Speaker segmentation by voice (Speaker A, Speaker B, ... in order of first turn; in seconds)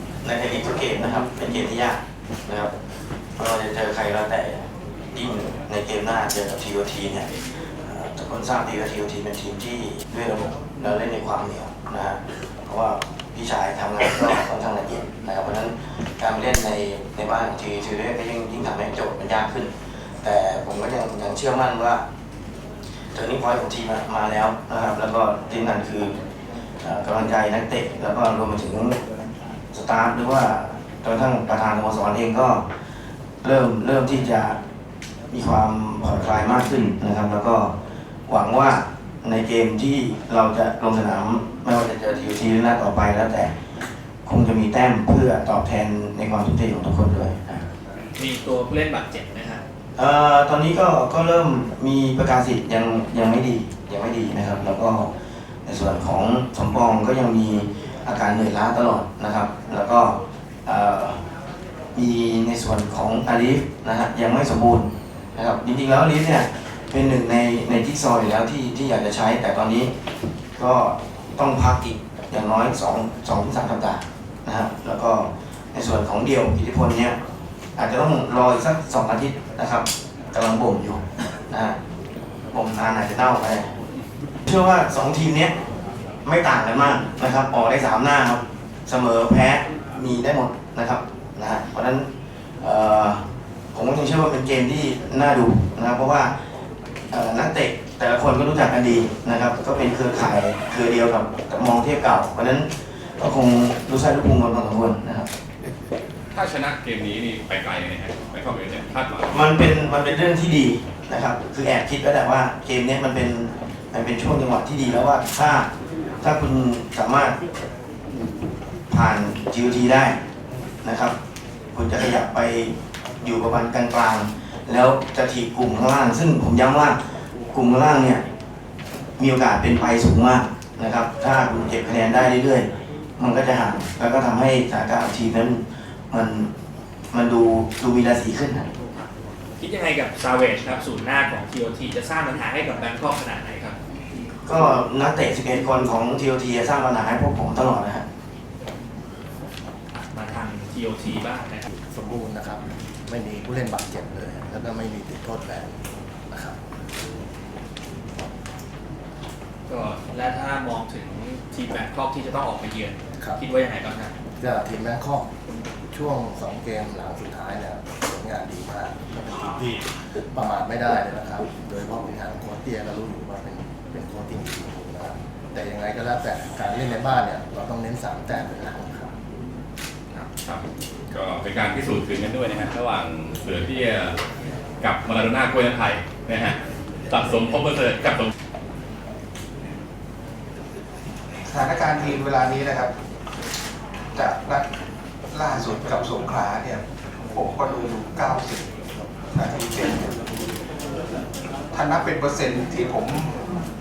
Speaker A: 0.2-2.7, 3.4-4.6, 5.1-7.3, 7.8-19.7, 20.2-22.0, 23.1-26.1, 26.8-29.0, 29.7-32.6, 33.4-34.6, 35.3-37.7, 38.3-43.5, 44.2-47.6, 50.0-55.1, 55.7-61.2, 62.0-69.9, 70.6-77.2, 77.8-81.8, 82.5-83.7, 84.5-85.6, 86.2-92.1, 92.6-93.2, 93.7-96.3, 97.1-105.3, 109.3-115.7, 116.2-117.4, 118.9-120.2, 120.8-121.2, 121.7-127.0, 127.5-128.2, 129.2-136.5, 137.1-138.7, 144.4-148.1
Speaker B: 48.2-49.6, 139.6-143.8, 150.1-151.7, 159.7-164.1
Speaker C: 106.3-109.7, 180.1-184.2, 184.8-186.6, 187.1-188.3
Speaker D: 151.9-155.8, 156.3-156.6, 164.4-165.3, 165.9-179.1
Speaker E: 191.5-192.9, 194.2-194.7, 195.3-198.6, 199.3-200.1, 201.7-203.4